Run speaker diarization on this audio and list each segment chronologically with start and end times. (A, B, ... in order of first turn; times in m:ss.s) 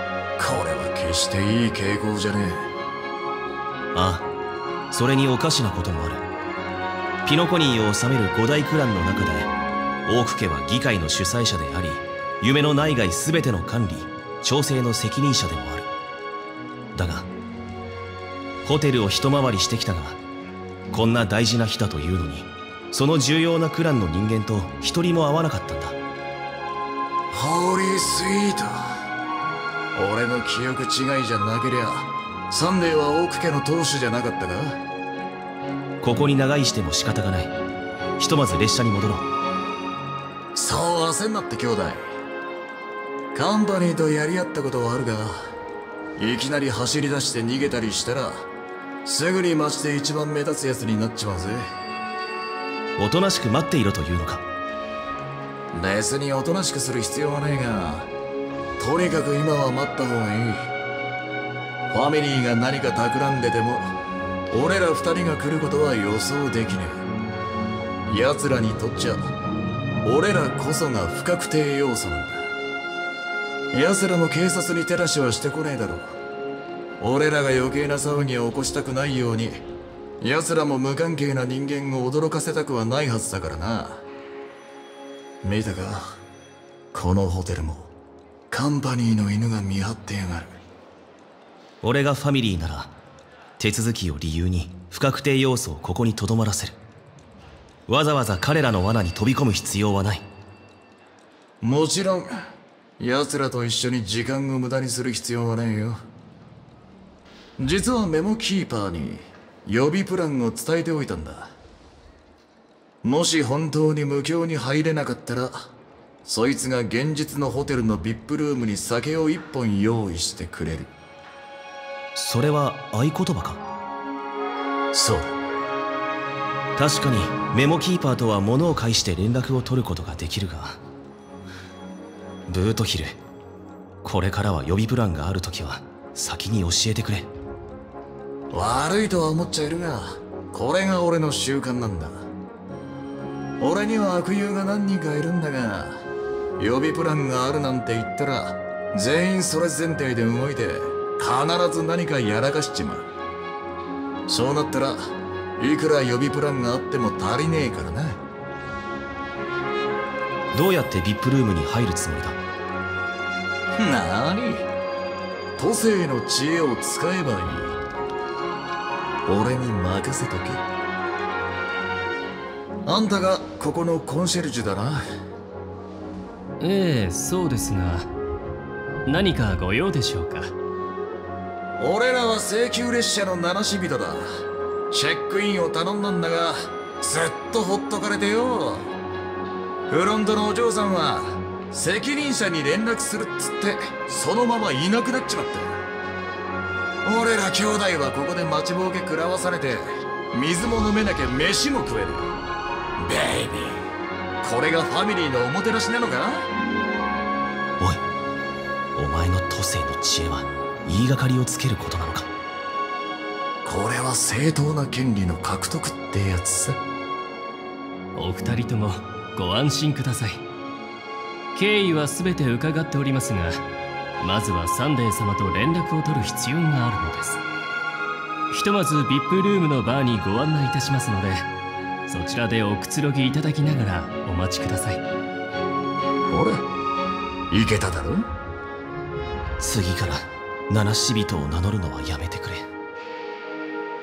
0:00.4-0:02.7 A
0:03.9-0:04.3 B
0:04.9-0:06.2 B
0:07.2-0:09.5 B
0:10.0-0:15.9 B
0:16.9-0:17.3 B
0:18.6-0:20.2 B
0:20.9-0:26.0 B
0:27.3-0:29.0 A
0:29.9-0:34.8 A
0:36.0-0:37.5 B
0:38.2-0:39.3 B
0:40.5-0:42.1 A
0:43.3-0:45.5 A
0:46.2-0:48.4 A
0:49.0-0:51.7 A
0:53.0-0:54.4 B
0:55.7-0:58.1 A
0:58.8-1:00.7 A
1:01.9-1:03.9 A
1:04.5-1:07.0 A
1:08.1-1:09.3 A
1:10.0-1:12.5 A
1:13.7-1:16.1 A
1:17.0-1:19.6 A
1:20.2-1:24.0 A
1:25.4-1:26.2 A
1:26.9-1:27.9 A
1:28.5-1:30.6 A
1:31.8-1:32.9 B
1:33.6-1:36.8 B
1:37.9-1:40.2 B
1:41.6-1:42.3 A
1:43.0-1:46.0 A
1:47.6-1:51.5 A
1:53.0-1:55.7 A
1:56.2-2:00.9 A
2:02.1-2:03.6 B
2:06.8-2:10.8 B
2:12.5-2:13.2 B
2:14.0-2:17.3 B
2:18.5-2:22.3 A
2:23.6-2:26.0 A
2:26.6-2:33.0 A
2:34.3-2:38.2 A
2:40.5-2:42.4 B
2:43.8-2:44.6 A
2:45.6-2:47.7 A
2:49.3-2:50.6 A
2:52.8-2:55.0 A
2:56.6-2:58.1 C
2:59.0-3:00.5 C
3:01.8-3:04.2 A
3:04.9-3:08.9 A
3:09.9-3:15.8 A
3:17.0-3:22.3 A
3:23.0-3:23.8 A
3:24.4-3:26.5 A
3:28.9-3:32.3 B
3:33.6-3:36.8 A
3:38.1-3:40.4 C
3:41.5-3:43.6 C
3:44.2-3:47.4 C
3:48.5-3:51.4 C
3:52.1-3:55.0 C
3:56.3-3:56.6 A
3:57.5-3:58.3 A
3:59.6-4:02.7 B